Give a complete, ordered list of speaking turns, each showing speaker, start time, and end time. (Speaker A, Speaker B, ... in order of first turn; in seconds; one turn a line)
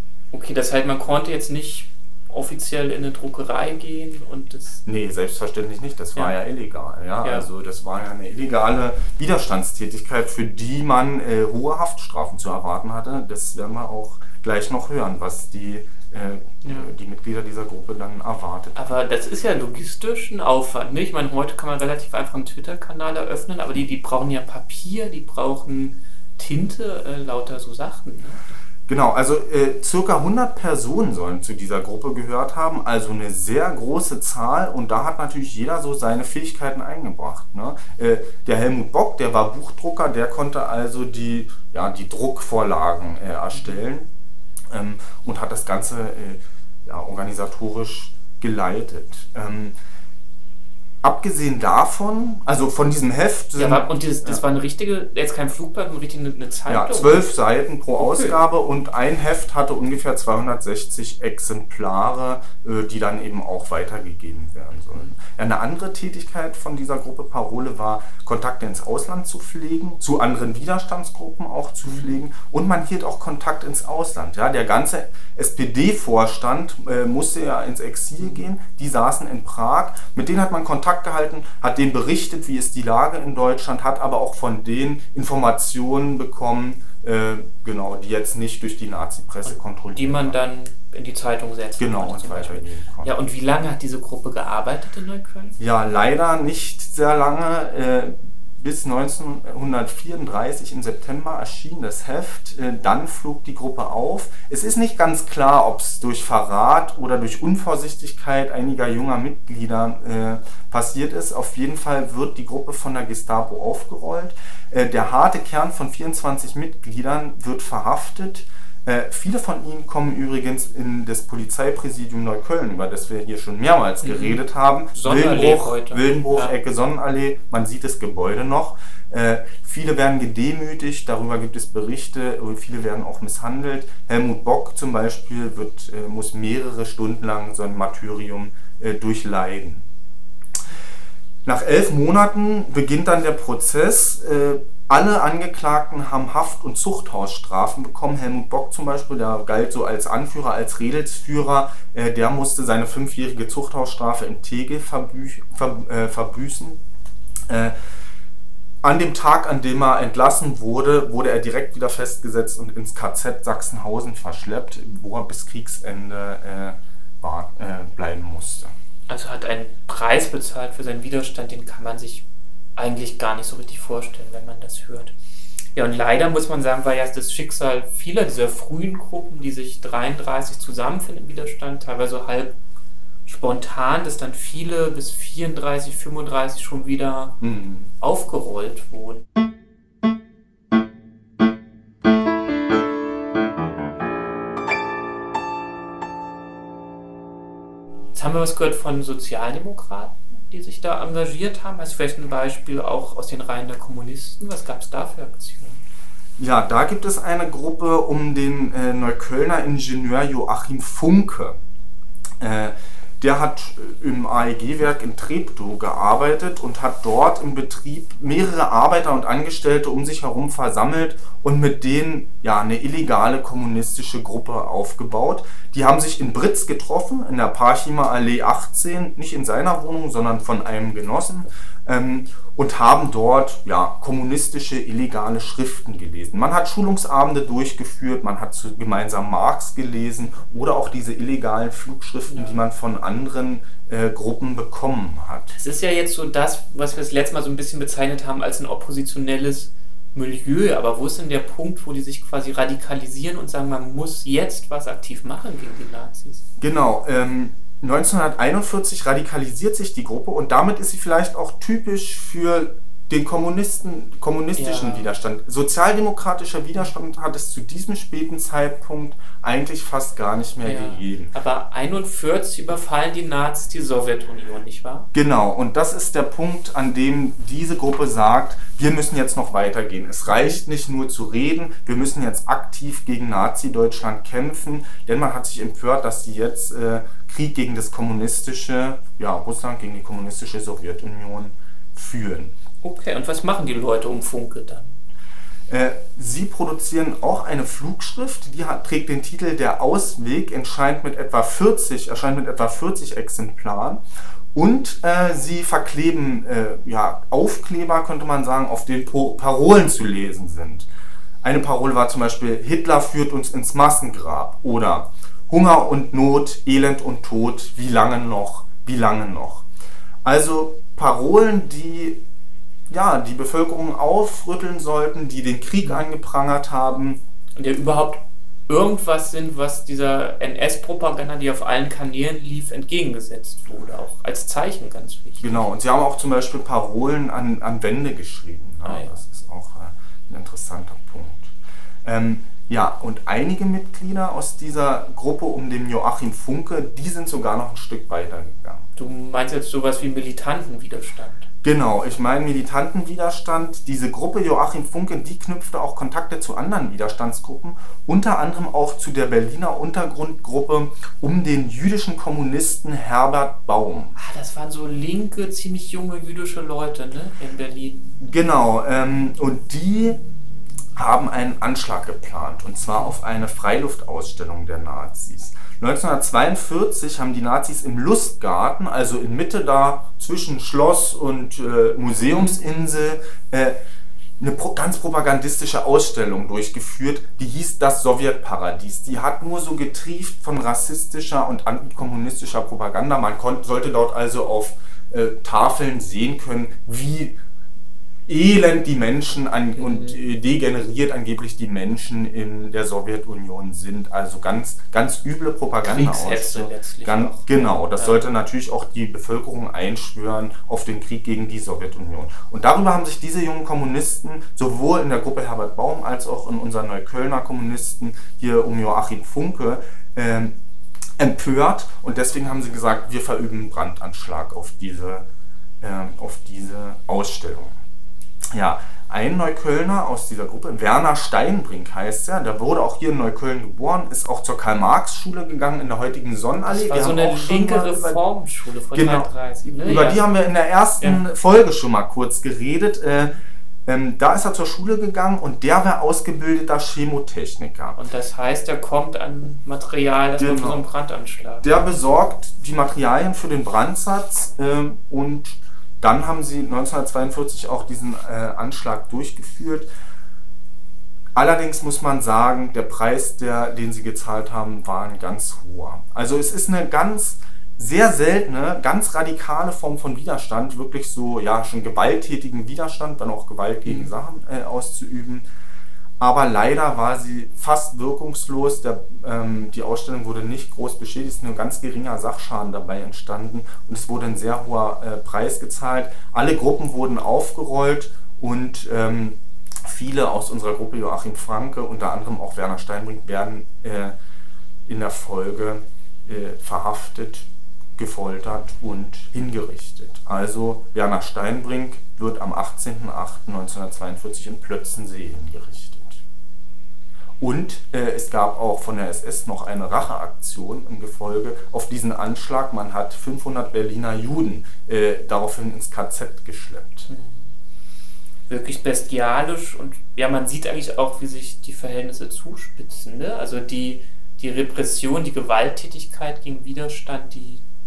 Speaker A: 0.3-4.8
Speaker B: 4.8-18.8
Speaker A: 7.2-7.5
Speaker A: 16.6-16.9
Speaker A: 18.8-28.4
Speaker B: 28.9-44.1
Speaker A: 43.5-43.8
Speaker B: 44.7-49.8
Speaker B: 51.0-54.4
Speaker A: 53.6-57.3
Speaker B: 56.7-90.4
Speaker A: 58.0-58.4
Speaker A: 71.8-72.2
Speaker A: 78.2-78.5
Speaker A: 89.5-95.6
Speaker B: 91.8-93.1
Speaker B: 95.6-139.9
Speaker A: 124.0-124.4
Speaker A: 125.0-126.5
Speaker B: 141.4-156.8
Speaker B: 157.5-157.8
Speaker B: 158.8-168.7
Speaker A: 169.1-172.3
Speaker A: 172.8-175.2
Speaker A: 175.8-182.6
Speaker A: 183.3-187.4
Speaker B: 187.4-187.9
Speaker A: 188.0-189.2
Speaker A: 198.1-205.8
Speaker B: 206.4-211.6
Speaker B: 212.4-245.6
Speaker A: 242.3-242.6
Speaker A: 245.5-256.4
Speaker B: 256.6-271.3
Speaker A: 264.6-265.1
Speaker A: 270.6-275.1
Speaker B: 275.1-292.6
Speaker A: 280.3-280.6
Speaker A: 292.8-295.0
Speaker B: 295.7-310.9
Speaker B: 311.4-319.7
Speaker B: 320.2-322.2
Speaker B: 322.9-327.2
Speaker A: 327.6-335.7
Speaker B: 335.4-348.9
Speaker A: 338.8-339.2
Speaker A: 349.0-351.5
Speaker B: 351.6-364.1
Speaker A: 364.2-368.2
Speaker B: 368.2-370.2
Speaker B: 371.0-383.8
Speaker B: 384.4-397.4
Speaker B: 398.3-420.6
Speaker A: 399.7-400.2
Speaker A: 405.8-408.2
Speaker B: 421.2-425.3
Speaker B: 425.8-427.8
Speaker B: 428.5-438.2
Speaker A: 436.7-440.4
Speaker B: 438.9-448.0
Speaker A: 441.0-441.2
Speaker A: 448.0-451.7
Speaker B: 450.4-450.9
Speaker B: 451.6-459.9
Speaker B: 461.4-475.5
Speaker A: 473.9-474.1
Speaker B: 476.2-494.2
Speaker B: 494.9-506.2
Speaker B: 507.4-517.1
Speaker A: 517.1-517.5
Speaker A: 518.5-527.6